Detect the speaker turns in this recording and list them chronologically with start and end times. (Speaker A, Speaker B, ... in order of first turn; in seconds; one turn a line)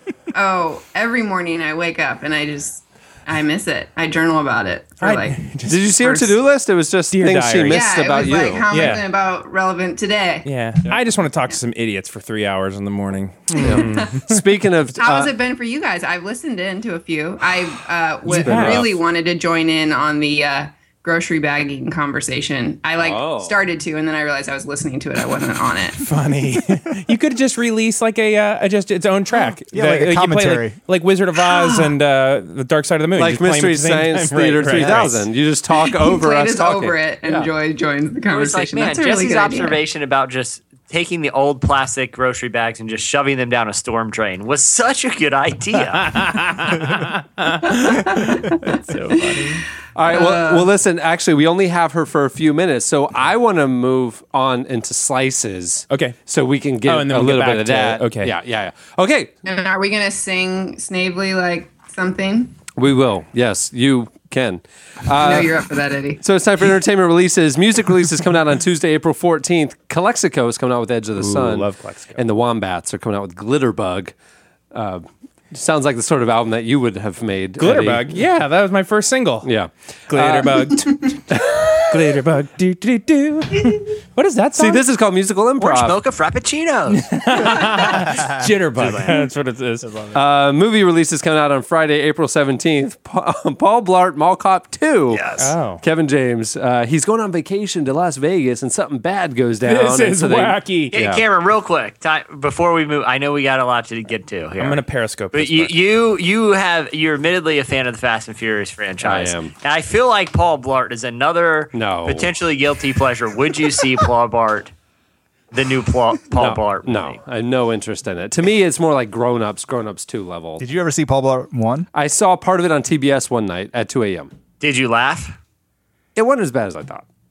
Speaker A: 0.3-5.4
Speaker B: 5.0-6.3
Speaker C: 5.7-8.9
Speaker B: 7.1-7.9
Speaker A: 7.7-10.5
Speaker B: 8.7-9.0
Speaker B: 10.4-14.4
Speaker A: 13.6-14.2
Speaker C: 13.6-15.3
Speaker A: 15.0-26.0
Speaker B: 18.3-18.9
Speaker C: 18.4-19.0
Speaker C: 23.0-23.6
Speaker B: 26.0-35.3
Speaker D: 29.7-30.8
Speaker A: 31.4-31.9
Speaker C: 33.2-37.5
Speaker A: 35.8-39.8
Speaker E: 38.3-46.1
Speaker B: 46.0-49.6
Speaker A: 47.6-50.7
Speaker C: 50.0-59.3
Speaker B: 55.9-56.2
Speaker B: 56.8-58.4
Speaker A: 59.5-62.5
Speaker C: 62.8-65.7
Speaker A: 65.2-66.2
Speaker C: 66.2-74.1
Speaker B: 71.2-72.2
Speaker C: 74.7-78.2
Speaker B: 77.6-79.5
Speaker C: 79.4-81.7
Speaker B: 80.1-84.8
Speaker C: 84.6-86.0
Speaker E: 85.6-87.1
Speaker B: 86.9-90.1
Speaker E: 88.8-89.2
Speaker C: 90.1-95.3
Speaker E: 95.1-95.5
Speaker B: 95.4-95.8
Speaker C: 95.8-101.2
Speaker B: 99.6-100.9
Speaker E: 100.9-104.8
Speaker B: 104.6-105.8
Speaker E: 105.3-114.7
Speaker C: 109.0-109.5
Speaker C: 111.7-112.3
Speaker E: 115.5-117.2
Speaker C: 116.4-120.6
Speaker D: 120.6-121.9
Speaker C: 121.9-124.3
Speaker E: 124.6-125.4
Speaker C: 126.2-127.0